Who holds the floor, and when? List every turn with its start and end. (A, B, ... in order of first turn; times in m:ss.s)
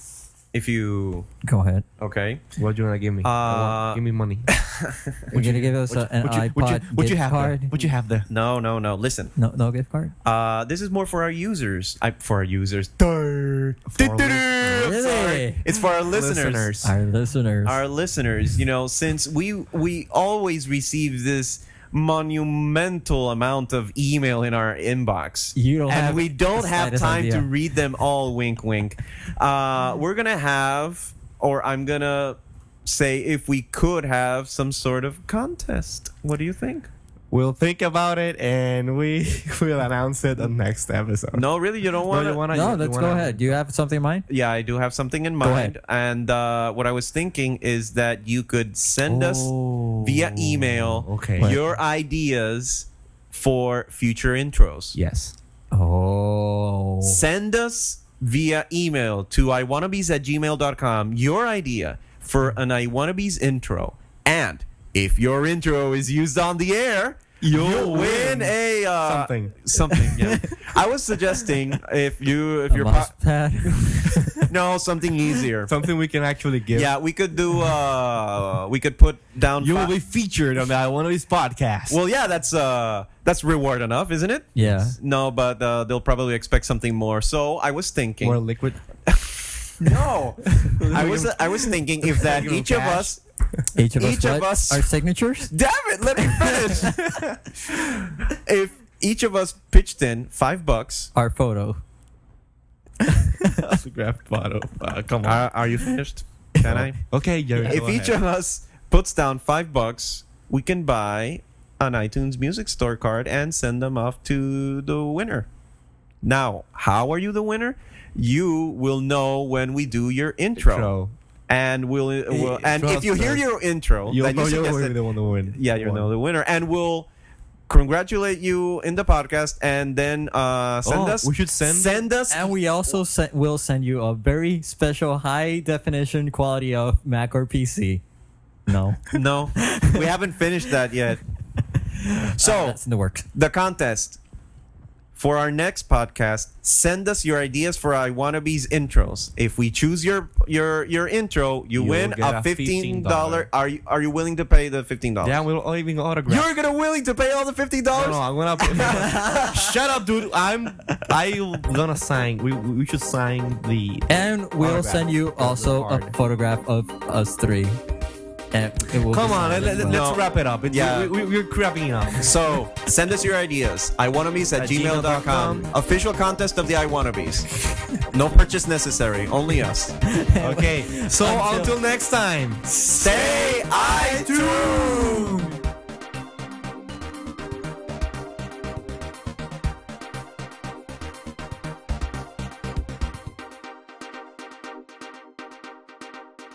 0:00.5-0:01.3 A
0:01.4-0:01.8 B
0:02.0-0:02.4 A
0:02.6-0:04.5 C
0:03.2-0:05.3 A
0:05.3-0:08.3 C
0:05.3-0:07.7 B
0:07.7-0:09.3 A
0:09.4-0:10.1 B
0:10.2-0:16.7 A
0:13.9-0:15.0 C
0:14.8-0:15.6 B
0:16.0-0:16.9 C
0:16.8-0:17.8 B
0:17.6-0:36.9 A
0:25.6-0:27.5 B
0:37.3-0:41.4 C
0:41.3-0:42.4 A
0:42.0-0:43.6 C
0:42.5-0:44.2 B
0:44.3-0:55.0 A
0:45.4-0:45.7 B
0:49.1-0:49.4 C
0:49.2-0:50.0 B
0:50.4-0:51.6 C
0:51.4-0:51.7 B
0:54.9-0:55.3 C
0:55.7-0:57.2 B
0:57.0-1:13.1 A
1:07.4-1:09.6 C
1:10.2-1:10.5 B
1:12.7-1:14.4 B
1:14.4-1:15.7 A
1:15.6-1:16.9 C
1:16.7-1:19.9 A
1:19.6-1:22.0 C
1:21.9-1:28.4 A
1:24.6-1:25.0 B
1:28.2-1:28.8 C
1:29.1-1:33.2 A
1:30.5-1:33.2 C
1:33.7-1:35.5 B
1:34.0-1:34.9 A
1:35.5-1:41.1 A
1:41.1-1:41.8 B
1:43.1-1:43.4 B
1:43.5-1:45.5 C
1:45.2-1:55.5 A
1:46.6-1:48.2 C
1:56.2-2:00.9 A
2:00.6-2:01.1 C
2:01.5-2:05.0 A
2:02.3-2:03.4 C
2:04.1-2:06.1 C
2:05.5-2:07.1 A
2:07.7-2:12.5 A
2:10.8-2:12.0 C
2:12.3-2:18.0 B
2:18.7-2:20.0 B
2:19.1-2:21.2 A
2:21.9-2:23.2 B
2:22.4-2:22.8 A
2:23.3-2:24.2 A
2:25.2-2:35.4 A
2:31.7-2:33.5 C
2:35.2-2:36.5 C
2:36.3-2:39.5 A
2:37.9-2:46.2 C
2:44.1-2:47.8 B
2:48.5-2:50.0 B
2:49.1-2:52.5 C
2:49.8-2:51.1 A
2:52.2-3:00.0 A
2:54.5-2:55.7 C
3:00.1-3:01.8 B
3:00.4-3:05.5 C
3:03.0-3:05.5 A